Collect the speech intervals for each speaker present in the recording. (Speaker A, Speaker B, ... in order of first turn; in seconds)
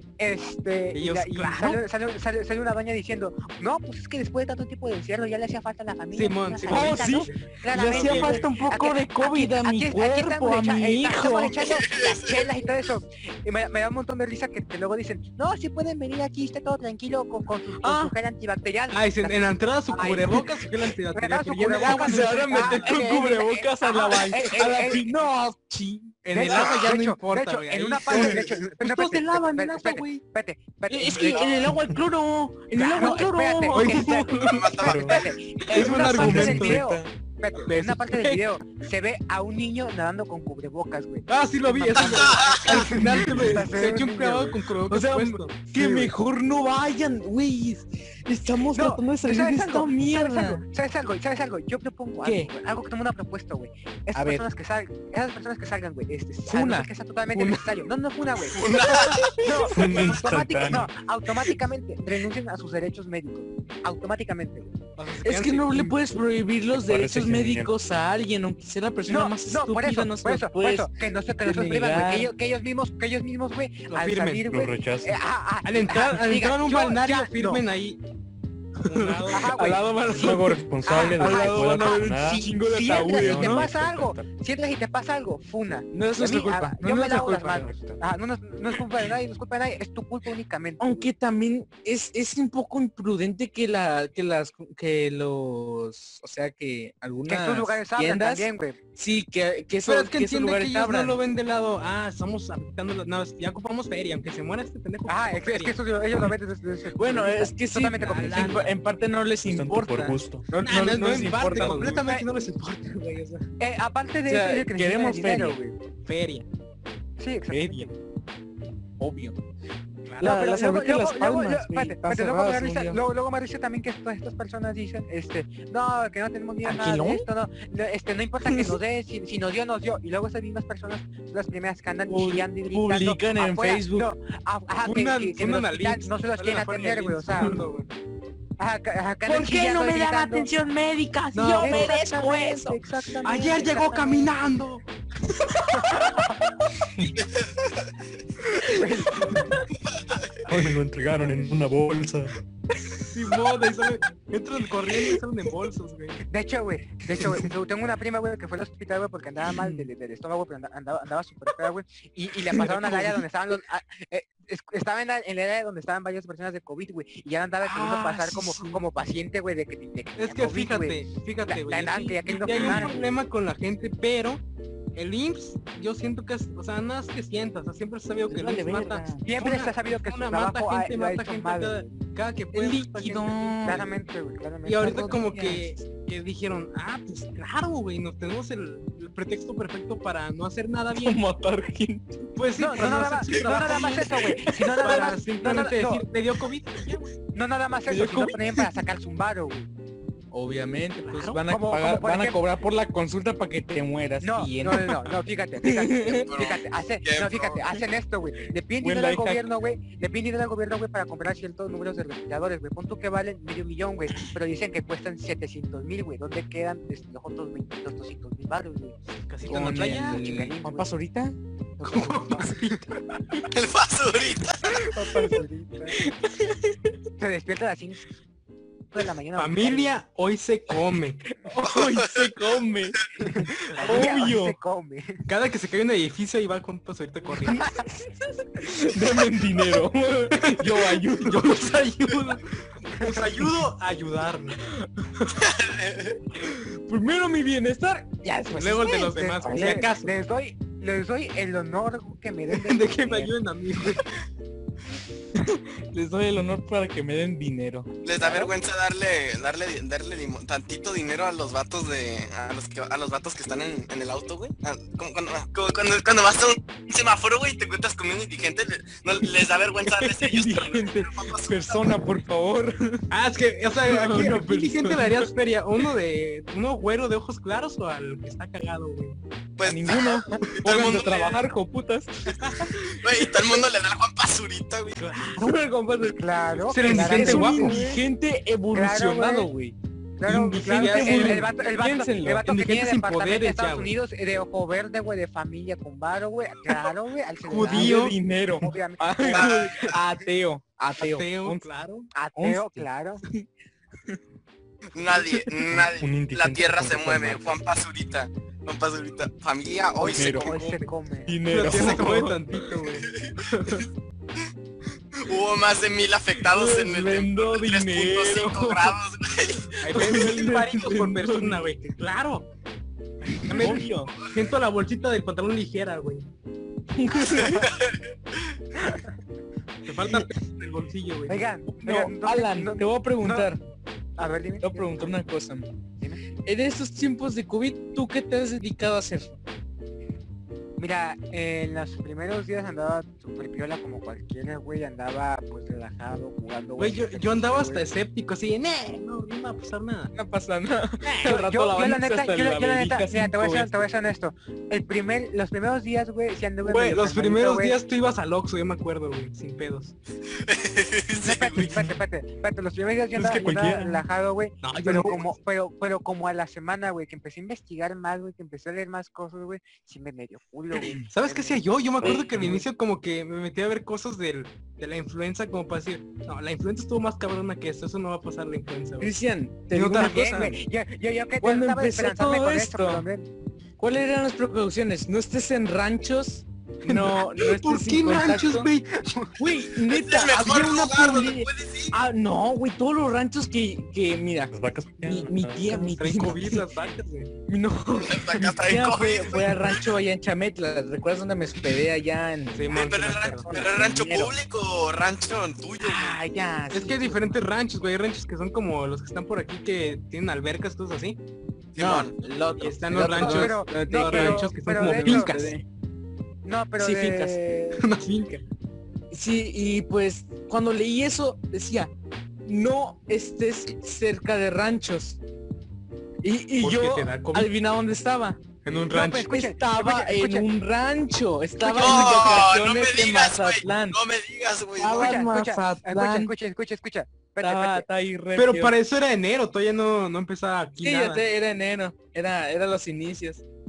Speaker A: 0.2-20.5, 21.1-25.0, 26.3-31.6, 32.8-44.6, 48.7-64.7, 69.1-77.6, 79.3-91.1, 97.3-98.8, 105.1-108.6, 111.8-112.2, 113.6-115.8, 117.2-117.9, 120.2-137.6, 138.6-140.5, 141.5-144.3, 145.7-146.3, 148.7-149.6, 156.2-173.0, 179.2-181.9, 183.6-185.2, 192.6-196.1, 197.3-199.7, 201.5-202.4, 204.2-218.9, 219.6-220.9, 221.8-222.7, 224.8-226.0, 227.2-228.0, 228.9-230.0, 233.2-235.2, 248.2-253.3, 258.2-258.5, 286.1-287.9, 288.7-289.5, 290.2-299.9, 302.1-303.2, 310.0-311.4, 331.3-333.5, 334.2-335.1, 340.8-347.8, 351.2-357.8, 361.2-372.1, 379.9-383.3, 389.0-389.3, 413.1-415.3, 416.4-417.9, 428.9-430.5, 434.9-437.9
Speaker B: 0.9-1.8, 6.1-8.5, 18.9-23.1, 26.2-30.2, 33.7-34.5, 35.7-36.8, 37.7-38.4, 41.3-46.1, 57.3-57.9, 65.0-66.0, 73.9-74.5, 75.6-78.0, 78.8-80.1, 99.9-105.8, 108.0-108.7, 110.5-113.5, 116.0-116.5, 117.5-117.9, 120.1-120.3, 134.8-137.9, 141.3-141.9, 143.2-144.9, 153.1-156.2, 162.5-163.2, 170.2-174.4, 174.9-183.9, 184.6-191.2, 192.4-197.1, 201.1-201.4, 219.3-220.2, 221.8-222.9, 229.4-231.2, 235.3-237.7, 240.4-244.7, 248.5-250.1, 252.5-254.1, 273.1-279.2, 280.6-281.4, 282.4-282.6, 285.0-285.6, 286.7-288.0, 290.2-291.5, 292.4-293.9, 297.4-298.2, 301.0-302.1, 311.5-313.9, 319.8-322.5, 323.4-326.3, 329.9-331.7, 346.8-350.1, 351.0-351.4, 356.6-360.0, 364.6-365.3, 371.1-379.1, 379.7-380.6, 386.9-389.1, 395.7-397.3, 402.5-403.5, 406.7-411.2, 412.6-415.5, 417.8-418.4, 426.6-427.5, 428.6-429.3, 431.8-432.3, 438.4-441.2
Speaker C: 6.7-11.8, 17.8-18.1, 21.7-26.2, 30.9-34.7, 44.9-50.6, 52.2-52.5, 54.1-54.4, 56.5-56.9, 65.2-70.9, 71.5-72.3, 78.9-83.7, 85.9-87.8, 90.8-101.2, 107.0-112.1, 114.3-115.6, 119.0-119.4, 120.2-123.0, 126.6-127.3, 128.5-128.8, 132.1-134.1, 139.2-142.8, 145.7-146.1, 148.9-149.5, 167.6-168.8, 172.3-173.0, 178.3-179.2, 182.5-183.8, 184.8-185.8, 190.9-192.3, 193.6-194.9, 197.9-198.7, 200.3-205.0, 205.6-206.3, 208.8-209.5, 219.4-221.4, 225.9-226.8, 231.4-234.6, 237.4-241.8, 244.7-245.1, 246.3-248.3, 249.4-249.8, 255.3-257.9, 269.9-273.0, 273.9-275.3, 279.6-282.7, 285.3-286.2, 286.9-289.8, 290.6-292.5, 297.5-301.6, 302.4-303.5, 310.1-310.6, 311.3-312.4, 316.4-319.0, 319.9-321.6, 323.5-324.1, 326.9-327.7, 331.8-333.6, 334.6-335.7, 336.4-339.3, 350.1-353.8, 372.0-372.6, 379.0-380.6, 381.4-383.1, 383.8-388.7, 389.4-396.7, 397.5-402.9, 403.5-404.3, 405.8-407.4, 411.8-415.6, 416.8-417.4, 419.1-421.9, 422.4-425.2, 426.2-428.6, 429.1-434.0, 434.8-436.3, 437.4-438.8, 440.8-443.4
Speaker D: 11.6-12.4, 26.5-26.9, 31.2-31.6, 34.4-35.2, 42.0-42.9, 58.5-59.5, 147.1-147.9, 149.9-150.4, 206.2-207.6, 223.4-224.9, 231.6-232.3, 245.3-246.2, 258.1-272.0, 279.6-281.4, 282.9-285.0, 299.4-299.9, 304.9-310.6, 313.1-313.4, 315.1-319.8, 327.4-328.0, 360.4-361.9, 389.9-392.0, 397.9-399.9, 402.7-406.2, 411.8-412.1, 431.7-435.2
Speaker E: 34.8-35.1, 35.8-37.1, 59.7-60.9, 66.8-67.7, 74.5-75.2, 80.1-84.3, 109.5-110.5, 150.5-152.3, 305.7-307.6, 363.1-364.1, 394.5-396.3